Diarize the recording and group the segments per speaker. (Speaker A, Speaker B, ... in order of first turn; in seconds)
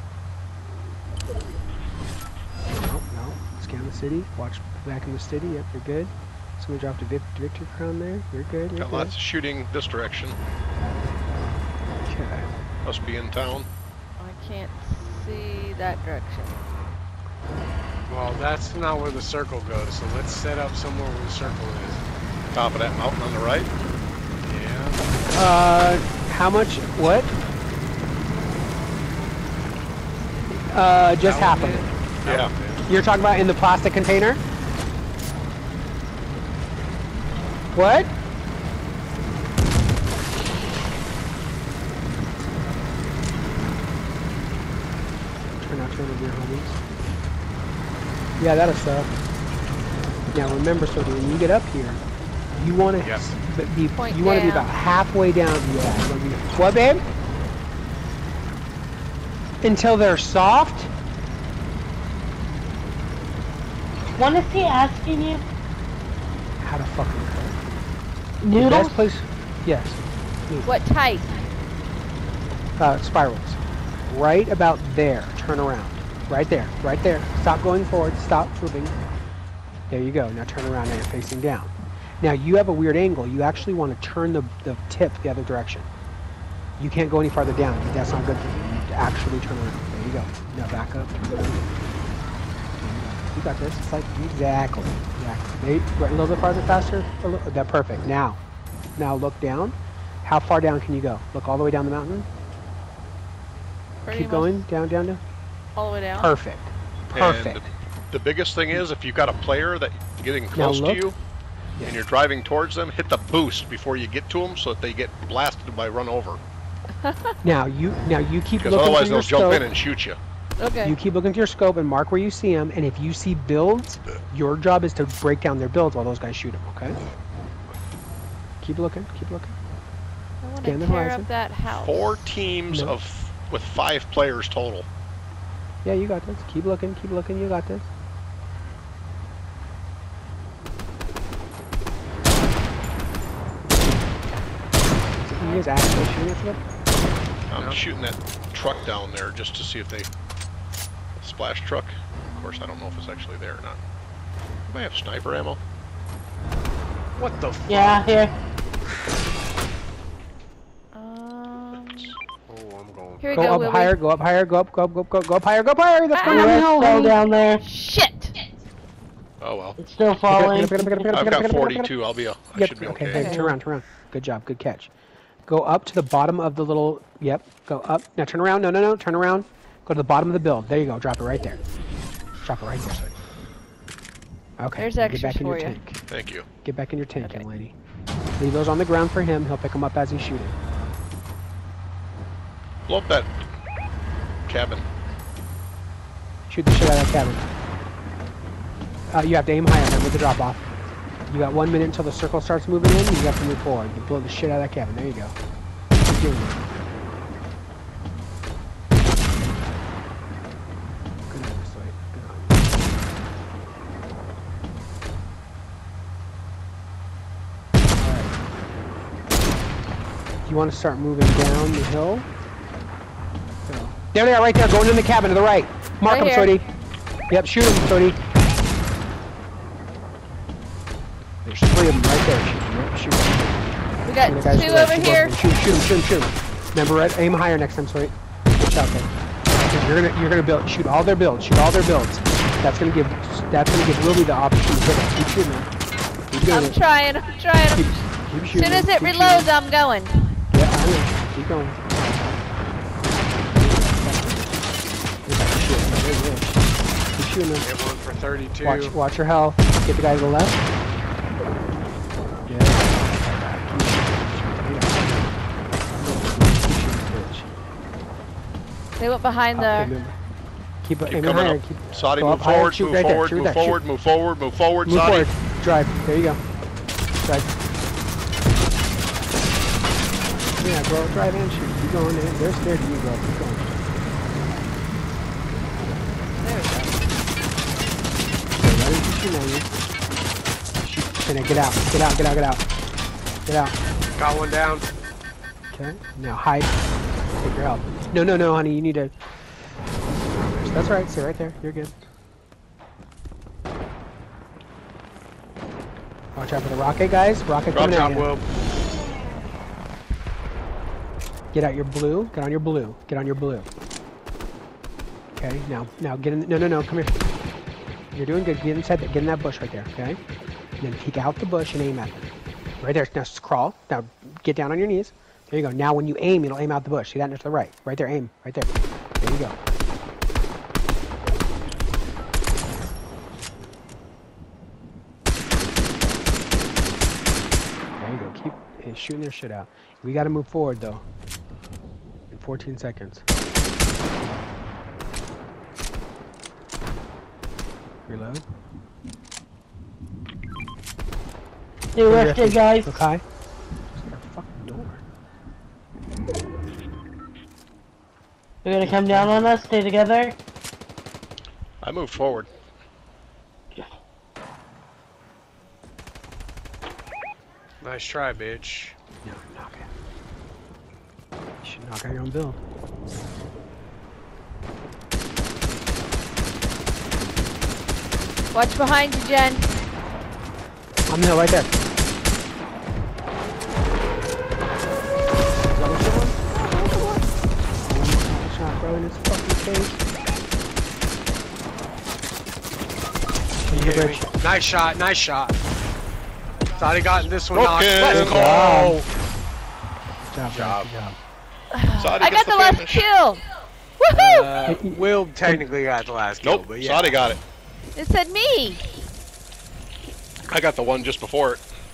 Speaker A: 2.7-9.1, 12.0-12.5, 25.3-27.3, 30.7-31.9, 32.9-34.4, 37.7-38.1, 45.6-46.8, 48.4-49.1, 50.3-52.0, 52.5-57.0, 59.6-60.9, 66.6-67.6, 68.5-70.7, 72.8-79.0, 79.9-85.9, 86.8-91.7, 92.8-98.4, 99.0-102.3, 104.1-105.2, 106.2-107.7, 110.5-111.1, 117.4-119.7, 120.8-127.0, 128.6-129.5, 130.6-131.3, 132.7-133.0, 135.8-137.9, 145.2-146.6, 163.3-167.2, 170.3-171.9, 172.5-174.9, 175.5-181.6, 182.4-183.1, 184.6-186.0, 186.6-187.7, 188.4-190.6, 196.5-197.5, 199.1-200.6, 201.3-205.3, 206.0-206.6, 209.3-209.8, 211.3-212.7, 218.0-218.3, 220.4-222.3, 223.6-226.7, 227.3-228.2, 231.4-239.1, 239.7-245.7, 246.3-246.8, 247.7-249.5, 250.5-251.8, 253.5-254.5, 255.2-256.5, 257.1-257.7, 258.6-260.6, 262.5-265.4, 265.9-267.5, 269.5-270.1, 270.8-273.8, 274.9-276.4, 277.2-277.5, 280.6-283.9, 288.5-289.7, 290.8-292.6, 293.4-293.7, 295.7-296.8, 297.4-299.1, 300.3-301.9, 306.3-308.3, 311.5-313.7, 315.4-317.1, 318.1-320.2, 320.8-322.3, 322.8-329.6, 337.9-341.0, 342.3-343.2, 348.0-348.4, 352.1-353.2, 353.9-355.0, 358.8-359.5, 369.2-369.9, 371.6-372.6, 381.1-381.8, 385.7-386.3, 387.8-390.0, 393.6-394.3, 398.1-399.0, 400.3-401.2, 404.6-405.6
Speaker B: 8.8-10.4, 12.8-13.7, 22.5-23.7, 32.2-32.5, 107.1-111.2, 111.8-116.4, 118.6-120.2, 131.7-134.9, 147.5-150.1, 151.2-153.8, 154.7-155.6, 169.4-169.8, 171.1-173.4, 186.1-186.5, 192.9-193.3, 194.5-194.8, 271.0-275.3, 361.8-362.5, 397.5-398.6, 402.0-403.0, 406.4-407.4, 410.5-411.6
Speaker C: 14.2-16.6, 54.0-54.7, 70.6-71.3, 104.0-104.7, 105.8-106.3, 117.0-117.3, 120.6-121.0, 130.4-132.3, 145.4-145.7, 160.9-162.2, 163.2-164.0, 166.1-166.6, 167.6-168.3, 173.1-173.5, 184.7-185.8, 187.2-187.4, 226.1-226.6, 234.0-235.3, 246.4-250.3, 269.0-269.9, 286.4-287.0, 378.5-379.7, 386.5-387.2, 401.7-403.4, 404.0-404.5, 407.9-408.8
Speaker D: 18.1-22.0, 24.4-25.1, 31.2-32.9, 53.0-53.3, 147.5-147.8, 157.2-158.1, 162.5-163.7, 257.6-258.9, 294.1-294.9, 307.8-308.4, 367.8-368.9, 393.7-395.6, 396.8-399.1, 400.4-400.9, 404.1-407.3
Speaker E: 64.1-65.4, 68.4-69.1, 157.7-158.3, 166.3-167.6, 169.8-171.1, 351.9-353.1, 358.6-360.4